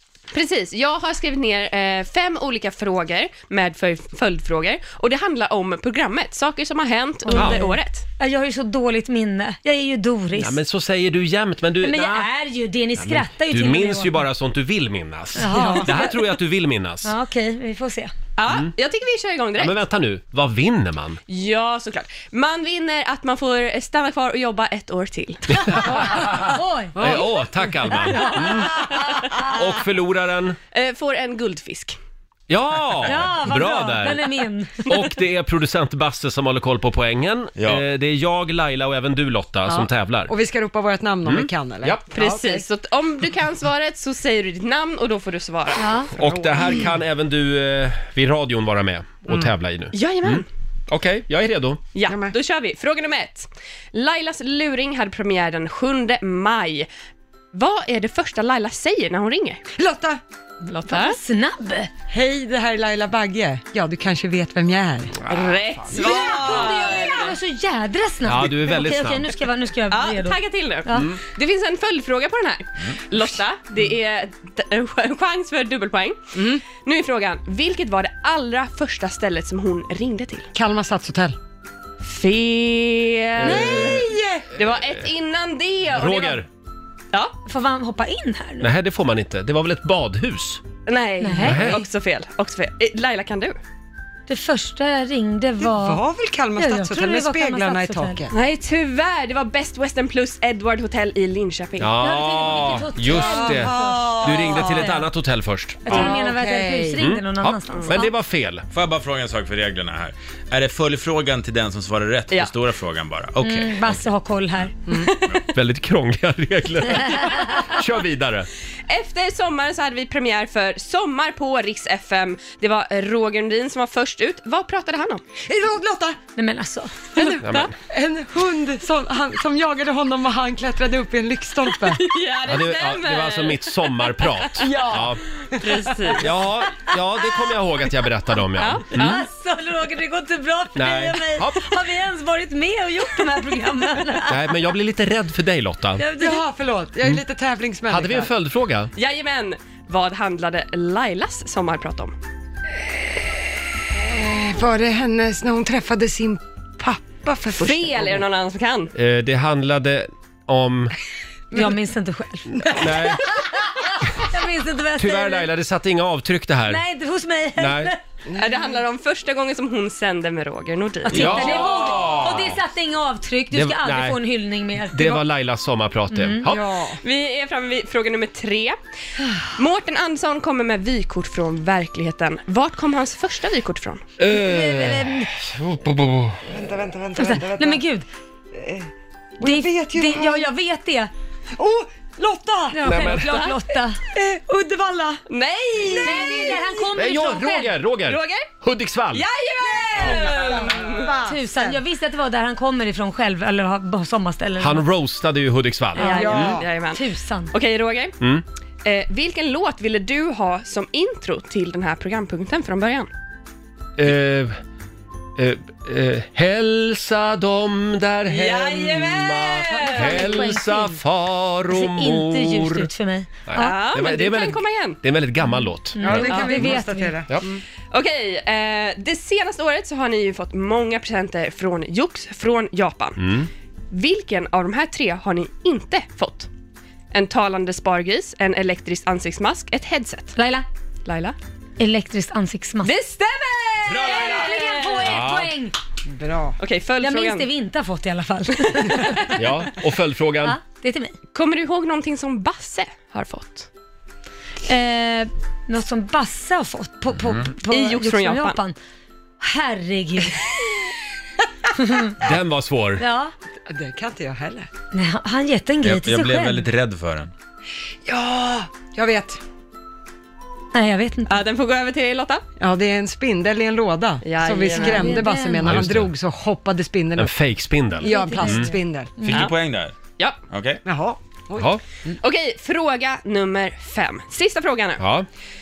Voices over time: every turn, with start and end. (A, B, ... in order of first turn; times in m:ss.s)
0:00.3-0:08.0 A
0:07.3-0:10.6 B
0:07.3-0:07.7 C
0:10.3-0:12.3 C
0:11.8-0:14.2 B
0:13.0-0:17.1 C
0:15.4-0:16.4 B
0:17.0-0:18.1 B
0:18.4-0:19.8 A
0:19.6-0:21.2 C
0:21.3-0:26.2 A
0:25.5-0:30.6 C
0:26.2-0:27.1 B
0:28.1-0:29.3 B
0:30.7-0:32.0 A
0:32.5-0:34.2 C
0:33.0-0:34.8 B
0:34.8-0:40.3 C
0:37.6-0:37.8 D
0:39.6-0:42.6 E
0:41.2-0:42.0 C
0:42.1-0:46.3 A
0:45.8-0:46.1 B
0:46.1-0:51.8 C
0:49.9-0:50.4 A
0:51.9-0:56.9 A
0:52.1-0:52.3 E
0:57.5-0:59.6 A
0:59.8-1:00.2 E
1:00.6-1:01.2 A
1:00.9-1:01.9 B
1:02.1-1:05.2 E
1:05.3-1:07.4 A
1:05.9-1:11.1 B
1:06.0-1:06.9 E
1:08.2-1:09.2 C
1:09.9-1:20.5 A
1:10.9-1:11.2 C
1:16.3-1:16.6 E
1:20.5-1:21.4 E
1:22.0-1:26.4 A
1:23.4-1:24.0 C
1:23.4-1:24.5 E
1:25.9-1:26.4 C
1:27.4-1:28.7 B
1:28.6-1:30.6 C
1:30.8-1:33.6 A
1:31.2-1:31.8 B
1:31.4-1:31.8 C
1:34.3-1:36.0 B
1:35.6-1:38.3 E
1:36.6-1:38.2 B
1:38.3-1:41.9 A
1:41.8-1:46.1 C
1:42.0-1:45.0 B
1:43.2-1:44.8 E
1:45.8-1:48.1 B
1:45.9-1:47.0 E
1:47.0-1:48.6 C
1:48.7-1:54.0 D
1:53.4-1:54.7 B
1:54.9-1:55.3 A
1:55.5-1:58.5 C
1:58.9-2:05.2 A
2:05.4-2:06.2 E
2:06.4-2:07.1 B
2:07.1-2:12.0 E
2:07.2-2:07.7 A
2:07.4-2:07.7 C
2:12.0-2:16.3 A
2:12.4-2:15.2 C
2:14.6-2:15.1 E
2:16.2-2:19.2 C
2:18.6-2:19.2 A
2:18.8-2:24.4 B
2:20.8-2:21.8 C
2:24.3-2:26.0 C
2:26.0-2:26.4 B
2:26.2-2:28.3 E
2:27.9-2:28.9 C
2:28.9-2:32.1 A
2:34.1-2:38.1 E
2:37.6-2:38.9 A
2:38.9-2:40.9 C
2:41.5-2:42.8 B
2:42.7-2:43.2 C
2:44.0-2:45.5 B
2:45.0-2:46.8 C
2:46.7-2:48.0 B
2:47.6-2:47.9 C
2:48.3-2:48.7 E
2:48.4-2:51.9 A
2:51.0-2:55.2 B
2:51.1-2:52.5 C
2:53.5-2:54.2 C
2:54.9-2:56.6 C
2:56.1-2:56.4 B
2:56.4-2:57.0 E
2:57.0-2:58.8 A
2:59.6-3:04.0 A
3:04.2-3:06.4 C
3:04.2-3:05.3 B
3:06.5-3:07.8 E
3:07.2-3:08.0 B
3:08.5-3:10.5 E
3:09.4-3:11.1 B
3:11.6-3:12.9 E
3:12.7-3:14.0 B
3:12.8-3:13.4 C
3:13.2-3:13.6 A
3:14.1-3:15.2 E
3:14.6-3:14.9 B
3:15.3-3:16.6 A
3:16.0-3:17.8 B
3:16.0-3:16.6 E
3:16.9-3:19.3 C
3:18.0-3:18.4 A
3:19.1-3:21.1 A
3:19.9-3:21.8 E
3:21.1-3:24.8 B
3:24.6-3:26.6 C
3:26.0-3:26.6 E
3:26.0-3:27.5 B
3:26.4-3:28.1 A
3:28.8-3:33.1 A
3:34.0-3:34.6 C
3:35.4-3:42.9 C
3:38.3-3:40.0 A
3:39.7-3:41.0 B
3:40.0-3:40.3 E
3:41.7-3:44.0 B
3:43.5-3:46.6 C
3:43.5-3:45.0 A
3:46.0-3:47.2 B
3:46.0-3:47.6 E
3:46.3-3:46.6 A
3:47.9-3:53.2 A
3:53.2-3:53.5 C
3:53.9-3:56.5 A
3:57.1-4:00.3 A
4:00.4-4:00.6 B
4:01.0-4:01.3 A
4:01.8-4:03.0 B
4:02.8-4:05.0 A
4:04.0-4:05.7 B
4:05.0-4:05.5 C
4:06.1-4:06.6 E
4:06.6-4:07.5 A
4:07.0-4:09.4 B
4:09.4-4:10.6 C
4:10.4-4:11.2 B
4:11.3-4:13.7 A
4:14.7-4:18.8 B
4:17.7-4:18.6 A
4:19.4-4:20.6 B
4:21.8-4:22.1 B
4:22.2-4:23.0 C
4:23.0-4:23.3 B
4:23.7-4:24.7 E
4:24.9-4:26.6 B
4:25.8-4:27.3 D
4:28.0-4:29.4 E
4:30.7-4:31.4 B
4:31.3-4:32.4 A
4:32.6-4:37.3 E
4:34.2-4:35.2 A
4:34.6-4:35.7 B
4:35.6-4:36.1 C
4:37.2-4:38.7 C
4:38.0-4:39.1 E
4:38.0-4:39.3 B
4:39.3-4:39.5 A
4:39.3-4:40.0 D
4:40.5-4:40.8 D
4:40.8-4:41.7 E
4:42.2-4:45.0 A
4:45.0-4:45.3 C